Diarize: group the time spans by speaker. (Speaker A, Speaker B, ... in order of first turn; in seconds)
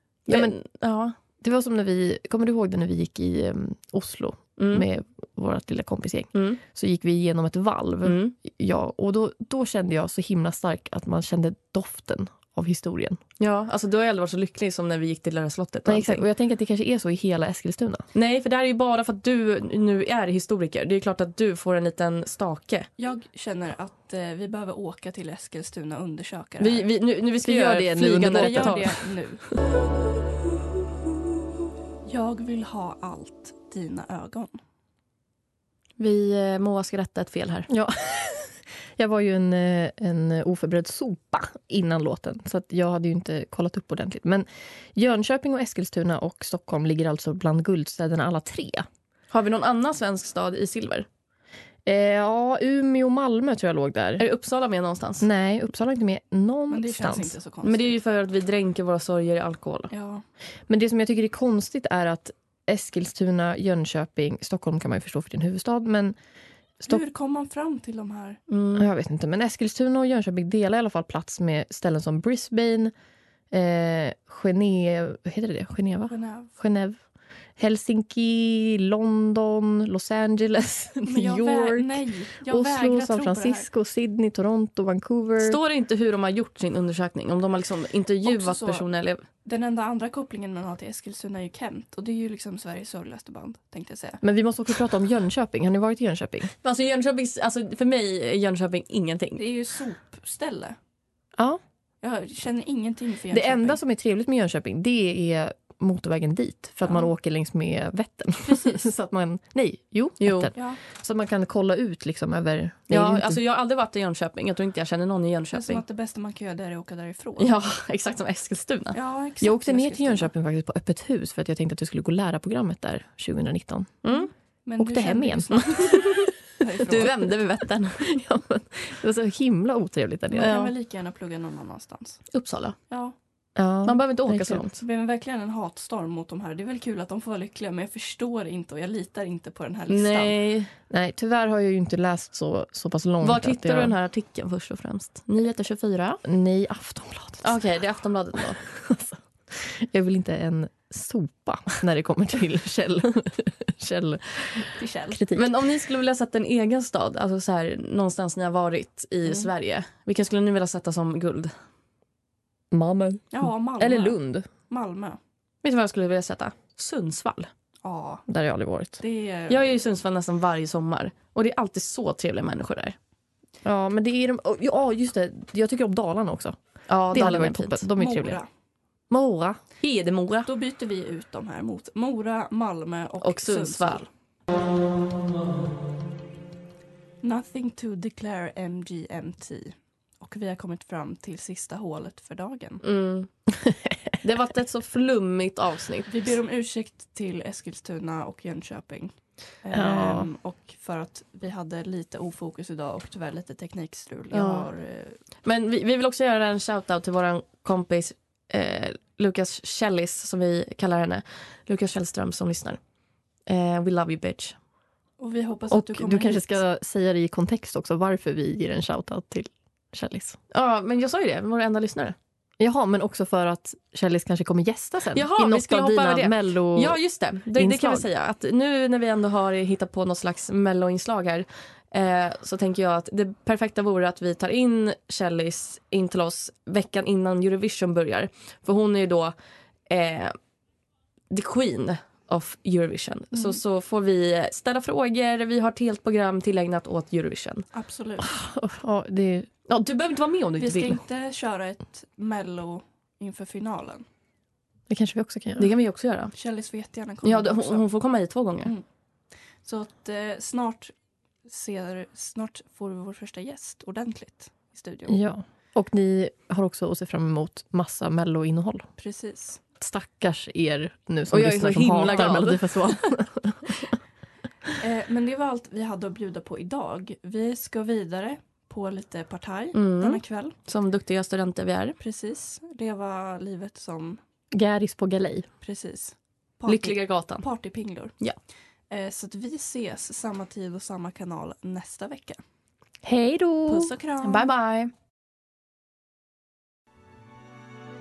Speaker A: 0.3-1.2, 4.6-4.9, 6.3-6.6, 8.0-8.3, 13.4-16.2, 18.1-22.9, 26.6-29.0, 36.0-37.7, 49.3-51.1, 54.2-55.3, 57.6-59.9, 68.5-68.9, 85.4-89.2, 96.6-99.4, 110.2-110.5, 112.9-115.8, 117.4-119.0, 124.0-124.3, 125.9-126.3, 126.9-128.1, 130.4-130.7, 132.3-132.8, 133.8-134.8, 139.9-140.7, 143.2-146.2, 147.4-148.6, 155.3-161.5, 165.6-167.5, 169.5-173.0, 176.9-177.9, 179.8-180.5, 183.2-184.0, 192.8-193.3, 194.2-196.1, 204.4-204.6, 205.4-212.8, 213.5-214.6, 220.5-222.2, 225.2-239.3, 239.9-240.3, 241.3-247.7, 249.7-251.0, 255.6-256.3, 257.2-258.7, 271.3-272.7, 279.7-282.0, 286.7-287.4, 294.2-294.9
Speaker B: 0.3-0.6, 1.4-13.2, 15.9-18.1, 27.4-28.9, 37.7-48.9, 51.9-54.2, 55.2-57.4, 60.7-66.2, 68.8-72.9, 73.5-77.0, 77.6-85.6, 94.2-96.5, 103.3-113.4, 119.4-124.0, 124.8-126.2, 127.9-130.6, 133.6-134.7, 140.9-143.9, 146.2-147.6, 148.4-155.6, 162.7-164.5, 168.3-169.0, 173.6-176.6, 177.1-178.4, 179.1-179.6, 193.6-194.0, 199.7-200.3, 215.7-220.4, 222.6-227.0, 227.5-228.1, 248.2-249.5, 254.9-255.7, 265.1-268.9, 269.8-274.0, 284.5-285.5, 293.0-293.9
Speaker C: 23.0-26.9, 28.2-29.4, 32.1-34.6, 56.7-58.0, 59.9-60.2, 66.9-68.4, 76.1-76.5, 81.0-83.7, 88.2-88.9, 89.4-94.2, 99.4-100.8, 102.0-103.8, 108.4-108.9, 110.5-110.8, 115.5-117.5, 118.9-120.3, 124.1-127.2, 130.3-132.2, 132.9-133.2, 134.7-140.4, 154.8-155.2, 163.3-165.2, 167.8-168.2, 169.0-169.8, 178.0-178.5, 180.5-184.1, 187.2-192.8, 196.1-205.2, 215.2-216.6, 243.3-243.6, 247.7-248.4, 250.6-254.1, 256.3-257.9, 259.6-260.9, 261.4-265.2, 269.0-269.6, 272.1-272.4, 274.8-280.6, 282.0-284.2, 285.6-288.1, 288.9-292.4, 293.7-294.5